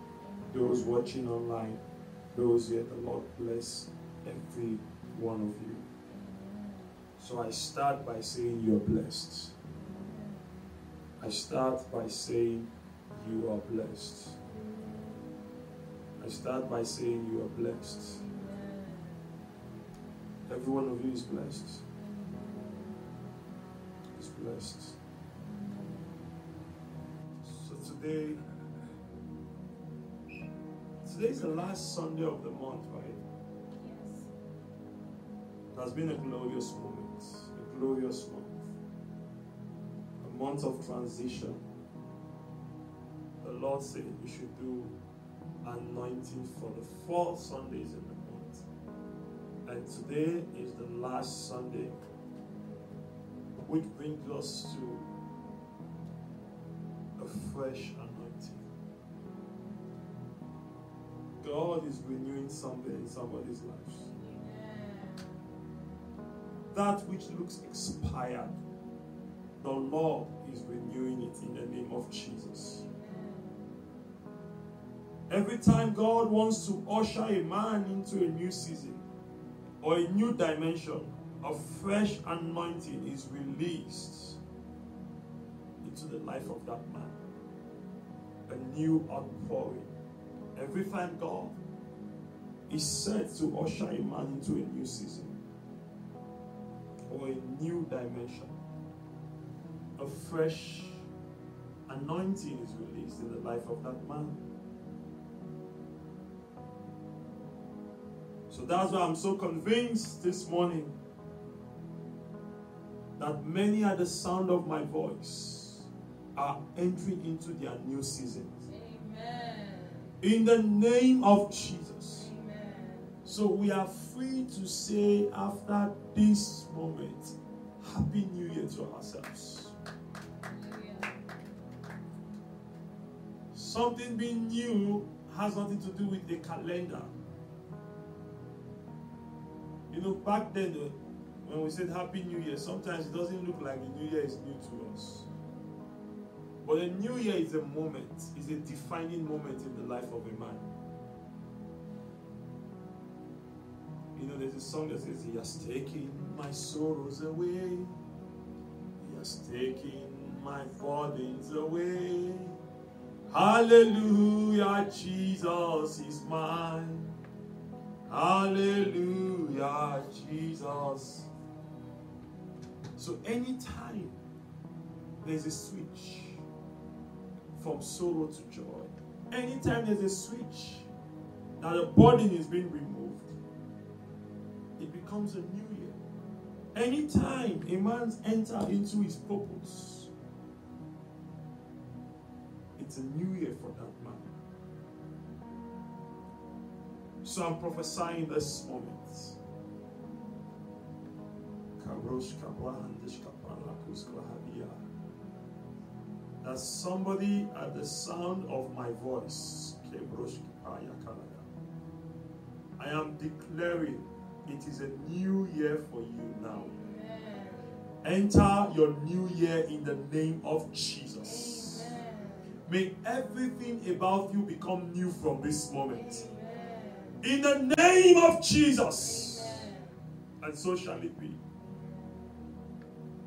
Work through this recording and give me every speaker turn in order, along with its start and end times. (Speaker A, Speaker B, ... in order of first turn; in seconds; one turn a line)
Speaker A: 0.4-0.6
Speaker B: 0.5-1.8
Speaker B: 2.3-5.9
Speaker A: 6.1-7.0
Speaker B: 7.2-9.5
Speaker A: 9.7-10.7
Speaker B: 11.2-14.3
Speaker A: 14.4-15.3
Speaker B: 16.2-18.2
Speaker A: 18.2-19.3
Speaker B: 20.5-21.8
Speaker A: 22.0-23.1
Speaker B: 24.1-24.9
Speaker A: 25.4-26.3
Speaker B: 27.5-28.4
Speaker B: 31.0-33.2
Speaker A: 33.8-34.3
Speaker B: 35.7-38.6
Speaker B: 40.2-41.6
Speaker B: 43.4-45.0
Speaker B: 45.6-48.6
Speaker B: 49.6-52.0
Speaker B: 53.6-55.1
Speaker B: 57.2-58.6
Speaker B: 61.4-64.1
Speaker A: 64.0-65.3
Speaker B: 66.7-68.6
Speaker B: 69.6-72.8
Speaker A: 72.6-73.7
Speaker B: 75.3-79.0
Speaker B: 79.8-84.4
Speaker B: 85.8-87.2
Speaker B: 88.5-89.9
Speaker B: 90.5-91.6
Speaker B: 92.7-95.3
Speaker B: 97.1-98.5
Speaker B: 100.0-101.0
Speaker B: 101.9-104.4
Speaker B: 108.5-110.9
Speaker B: 113.2-118.6
Speaker A: 118.7-120.1
Speaker B: 120.2-122.3
Speaker A: 122.1-123.2
Speaker B: 123.2-129.7
Speaker A: 130.4-131.4
Speaker B: 133.5-137.1
Speaker B: 139.9-145.3
Speaker B: 146.6-150.7
Speaker B: 154.2-157.9
Speaker B: 159.0-162.6
Speaker B: 163.3-167.1
Speaker B: 168.1-171.3
Speaker B: 173.0-174.2
Speaker B: 175.2-176.4
Speaker B: 177.6-180.9
Speaker B: 181.6-183.2
Speaker B: 184.8-185.9
Speaker B: 186.7-190.1
Speaker B: 192.8-194.3
Speaker B: 197.2-199.3
Speaker B: 201.8-204.8
Speaker B: 206.4-211.4
Speaker B: 212.8-216.7
Speaker A: 216.6-217.8
Speaker B: 218.0-221.9
Speaker A: 221.2-222.4
Speaker B: 222.7-226.2
Speaker A: 225.9-227.2
Speaker B: 227.2-229.7
Speaker A: 229.0-229.9
Speaker B: 230.4-231.4